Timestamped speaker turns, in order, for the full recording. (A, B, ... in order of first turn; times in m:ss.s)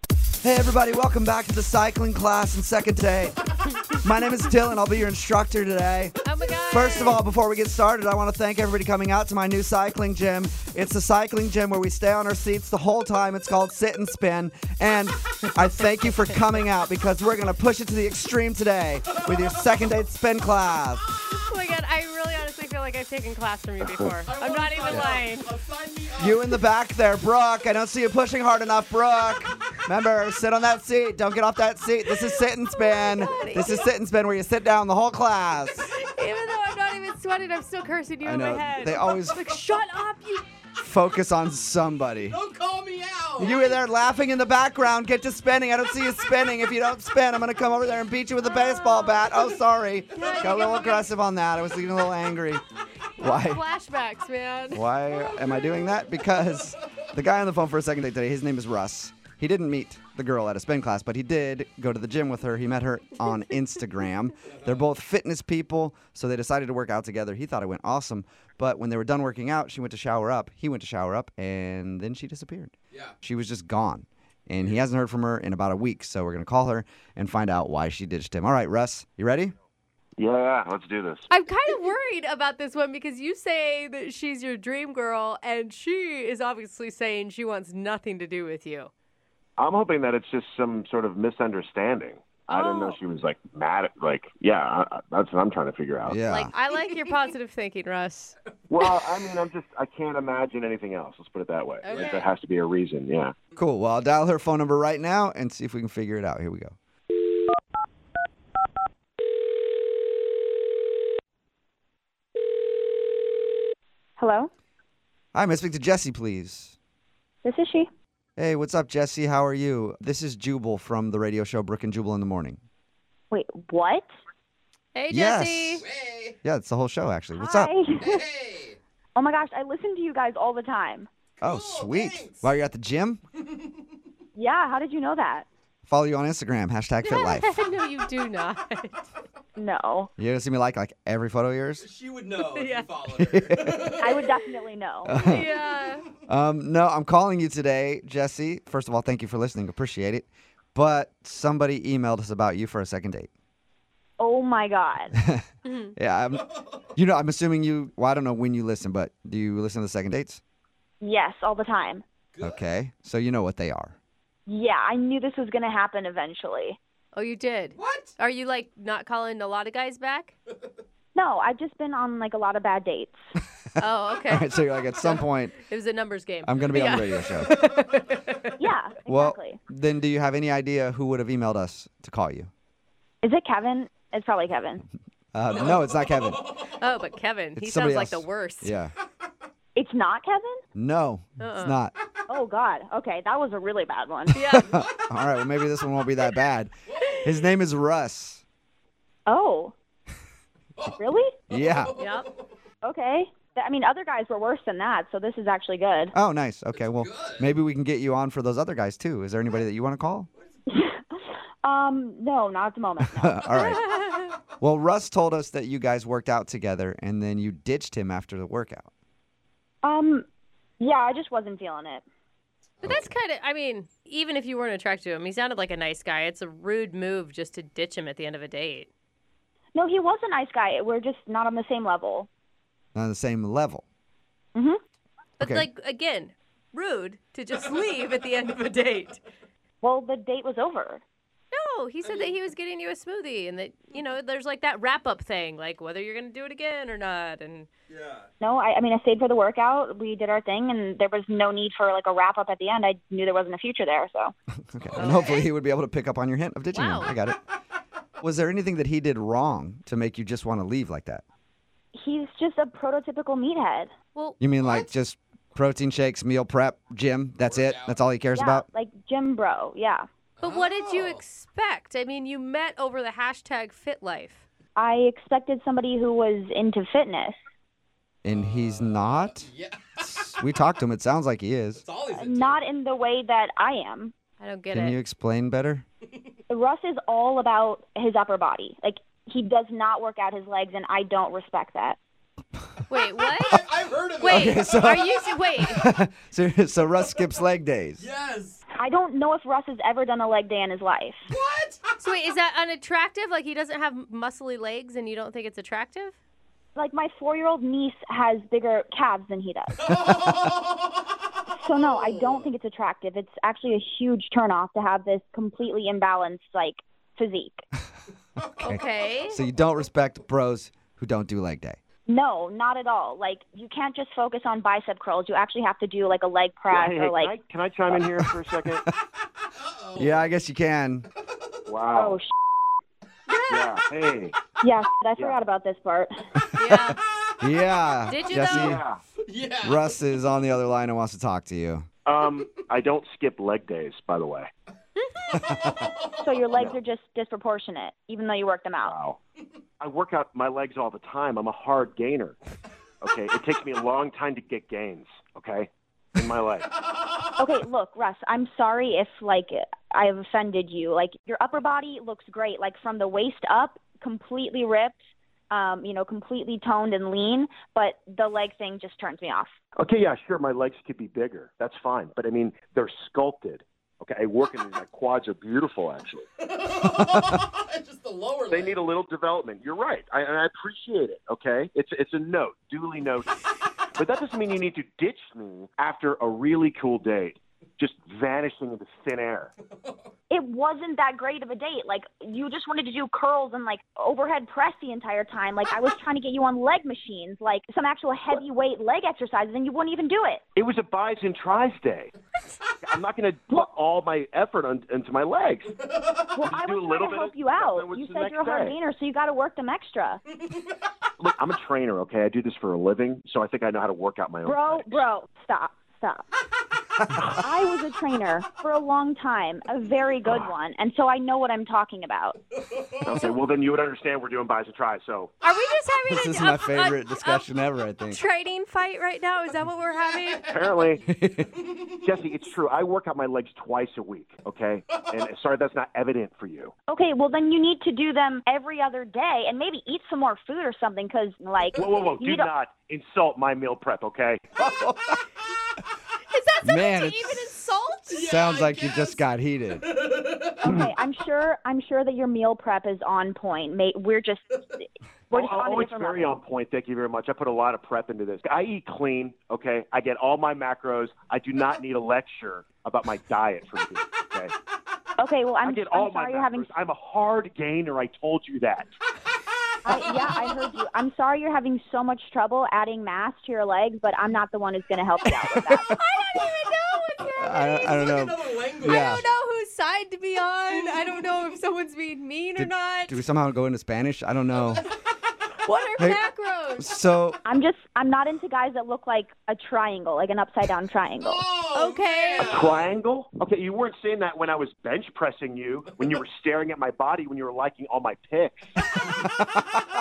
0:00.4-0:03.4 A
0:03.9-0:21.0 A
0:06.2-0:07.2 B
0:16.1-0:16.4 B
0:21.3-0:25.5 B
0:24.2-0:26.5 C
0:26.2-0:35.9 A
0:32.3-0:33.9 B
0:35.8-0:40.4 B
0:38.2-0:39.4 A
0:40.7-0:42.4 A
0:42.3-0:43.6 C
0:43.4-0:52.6 A
0:48.4-0:49.3 B
0:50.1-0:51.1 B
0:53.2-0:55.5 B
0:53.2-0:53.6 A
0:54.7-1:19.5 A
1:20.2-1:21.3 D
1:21.3-1:28.9 B
1:29.6-1:36.2 D
1:32.5-1:33.0 B
1:36.0-1:36.5 A
1:36.3-1:38.3 B
1:38.7-1:43.4 D
1:41.8-1:42.3 B
1:43.6-1:46.8 A
1:54.2-1:54.5 E
1:55.3-1:56.7 A
1:57.4-1:57.9 E
1:58.4-2:02.6 A
2:03.3-2:04.1 E
2:04.9-2:05.8 B
2:05.1-2:05.8 A
2:05.8-2:06.4 C
2:06.4-2:07.7 A
2:07.4-2:08.2 E
2:08.0-2:08.8 C
2:09.1-2:11.1 E
2:11.4-2:12.5 C
2:11.4-2:13.2 A
2:14.4-2:15.4 E
2:15.9-2:17.6 A
2:17.0-2:19.1 B
2:19.6-2:20.1 E
2:20.2-2:21.9 A
2:21.8-2:24.4 C
2:22.5-2:22.9 B
2:23.2-2:24.0 A
2:24.0-2:25.3 E
2:25.0-2:25.4 A
2:25.2-2:26.1 B
2:26.3-2:33.3 A
2:34.2-2:35.2 E
2:35.6-2:35.9 B
2:36.0-2:40.4 A
2:41.0-2:42.0 E
2:42.3-2:42.6 C
2:42.4-2:44.0 A
2:44.5-2:46.8 E
2:47.1-2:50.3 B
2:47.8-2:48.1 C
2:51.1-2:53.2 E
2:53.8-2:58.6 B
2:54.3-2:55.6 A
2:56.4-2:57.5 A
2:58.6-2:59.6 E
2:59.1-3:02.5 A
3:03.2-3:04.8 E
3:05.3-3:06.6 A
3:05.5-3:06.8 C
3:06.7-3:08.7 B
3:07.6-3:08.9 A
3:09.7-3:10.6 E
3:10.7-3:11.9 A
3:11.4-3:11.8 B
3:12.3-3:14.5 E
3:14.3-3:14.7 B
3:14.3-3:16.7 A
3:16.9-3:17.3 C
3:17.2-3:18.4 A
3:19.3-3:19.7 E
3:20.9-3:21.4 E
3:21.5-3:22.0 A
3:21.5-3:22.4 C
3:22.0-3:22.3 B
3:22.8-3:26.1 E
3:26.1-3:30.3 A
3:26.8-3:27.5 C
3:30.7-3:33.8 E
3:33.2-3:33.8 A
3:33.6-3:34.3 B
3:34.6-3:38.9 A
3:39.8-3:40.3 E
3:40.8-3:42.0 E
3:42.8-3:43.1 A
3:42.8-3:48.9 B
3:49.7-3:52.3 E
3:52.9-3:53.8 A
3:55.4-3:59.2 B
3:55.4-3:55.7 A
3:59.8-4:01.0 E
4:01.5-4:07.7 B
4:07.9-4:08.2 C
4:08.4-4:14.3 E
4:14.7-4:17.4 A
4:14.8-4:15.5 C
4:16.7-4:17.1 B
4:18.2-4:21.2 A
4:21.9-4:23.9 E
4:24.4-4:28.6 A
4:24.6-4:24.9 C
4:27.4-4:28.0 C
4:28.3-4:30.0 E
4:30.4-4:31.2 C
4:30.4-4:34.4 B
4:34.8-4:37.4 E
4:38.2-4:39.5 A
4:38.3-4:40.4 C
4:40.0-4:41.8 A
4:41.8-4:42.6 C
4:42.1-4:44.1 E
4:44.4-4:45.0 B
4:44.7-4:45.8 A
4:46.5-4:52.0 E
4:52.9-4:53.6 B
4:53.5-4:54.8 C
4:54.2-4:55.8 B
4:54.3-4:58.0 A
4:58.0-4:58.6 C
4:58.7-5:01.2 E
5:01.3-5:01.8 C
5:02.0-5:06.1 B
5:06.8-5:09.9 E
5:09.9-5:10.6 C
5:09.9-5:10.3 A
5:11.5-5:17.6 E
5:18.6-5:19.4 B
5:18.6-5:21.8 A
5:22.1-5:27.3 E
5:26.7-5:28.8 D
5:29.6-5:30.2 C
5:30.0-5:31.1 A
5:31.6-5:32.2 D
5:31.9-5:32.2 E
5:33.3-5:33.8 B
5:33.5-5:34.4 D
5:34.6-5:36.3 E
5:36.6-5:37.0 B
5:37.4-5:38.8 A
5:38.1-5:38.8 B
5:38.5-5:39.0 D
5:39.1-5:40.0 C
5:39.6-5:41.8 A
5:42.0-5:44.5 D
5:45.3-5:46.3 C
5:45.3-5:45.7 A
5:46.2-5:49.0 E
5:46.5-5:46.8 D
5:48.8-5:49.2 D
5:49.8-5:52.4 D
5:53.0-5:56.7 D
5:56.9-5:57.3 C
5:57.4-6:05.0 E
6:05.5-6:09.5 E
6:09.8-6:16.3 D
6:16.4-6:18.8 C
6:18.5-6:23.4 D
6:24.0-6:29.5 D
6:29.8-6:30.1 C
6:30.3-6:40.4 E
6:40.5-6:42.1 D
6:42.8-6:45.8 D
6:46.0-6:46.3 C
6:46.3-6:50.2 E
6:46.4-6:48.8 D
6:51.2-6:55.1 D
6:54.4-6:56.2 E
6:57.4-7:02.4 E
7:02.7-7:03.1 C
7:03.0-7:05.3 D
7:05.4-7:07.5 B
7:06.1-7:08.2 A
7:08.1-7:10.5 B
7:10.0-7:10.9 C
7:10.4-7:11.1 D
7:11.1-7:11.5 A
7:11.9-7:16.7 D
7:14.9-7:15.2 C
7:16.9-7:22.5 E
7:21.8-7:24.5 D
7:24.7-7:25.0 A
7:26.3-7:28.2 B
7:26.6-7:27.4 A
7:28.1-7:29.2 C
7:28.2-7:29.9 A
7:29.9-7:30.7 C
7:30.6-7:36.4 E
7:35.3-7:44.5 D
7:45.2-7:46.7 E
7:45.6-7:48.9 D
7:49.8-7:56.0 E
7:49.9-7:50.5 C
7:55.4-7:55.8 A
7:56.0-7:58.1 B
7:57.2-7:59.2 A
7:57.8-7:59.2 C
7:58.8-8:03.2 B
8:00.7-8:01.2 C
8:02.6-8:04.8 A
8:05.6-8:06.9 B
8:06.8-8:07.4 A
8:07.4-8:11.4 E
8:11.2-8:12.9 C
8:11.7-8:12.8 B
8:12.4-8:18.7 D
8:19.0-8:19.2 C